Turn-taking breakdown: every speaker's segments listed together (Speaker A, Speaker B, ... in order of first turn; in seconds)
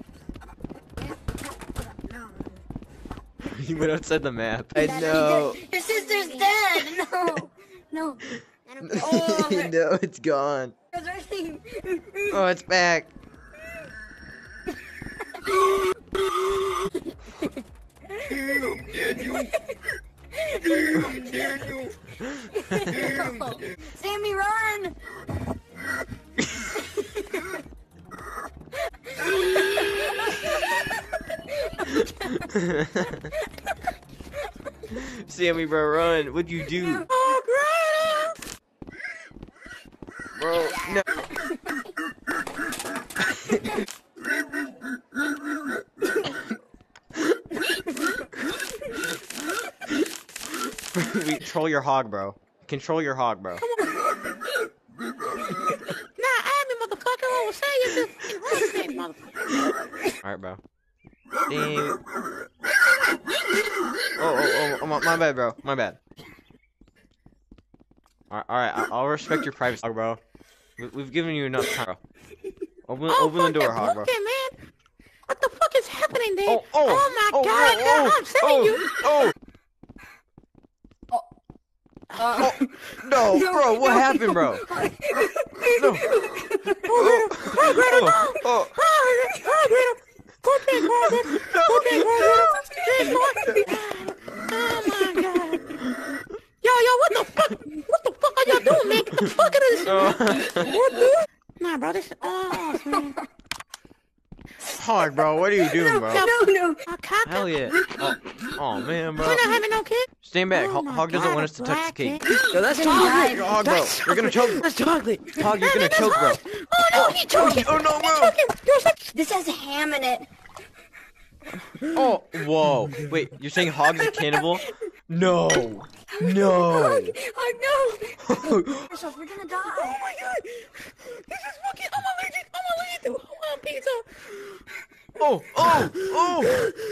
Speaker A: 3.4-5.6, 8.8-10.7, 12.3-13.1, 32.1-33.3, 34.9-37.1, 40.4-41.0, 50.9-53.7, 60.2-60.6, 61.5-62.0, 64.2-66.0, 68.3-70.2, 70.8-72.0, 72.9-74.1, 76.5-79.3, 82.2-84.7, 85.7-86.3, 86.9-88.8, 90.7-92.6, 95.8-96.2, 99.1-100.8, 104.7-106.3, 107.2-109.6, 110.2-112.2, 112.9-114.7, 115.3-118.4, 121.9-127.2, 128.2-128.9, 135.2-136.6
Speaker B: 4.8-9.7, 10.9-12.4, 15.3-15.6, 18.2-19.6, 20.5-21.9, 22.6-24.9, 26.8-27.6, 29.4-31.0, 82.2-82.6, 83.2-87.0, 92.7-93.7, 98.7-99.1, 105.6-106.8, 112.6-113.6, 117.2-117.7, 119.1-120.3, 126.1-130.0
Speaker C: 37.1-38.4, 53.7-54.0, 56.2-59.7, 73.1-74.6, 75.3-79.3, 86.8-95.8, 96.6-103.2, 106.1-108.0, 109.2-114.4, 115.6-119.1, 123.8-124.4, 129.9-134.6
Speaker D: 112.5-115.4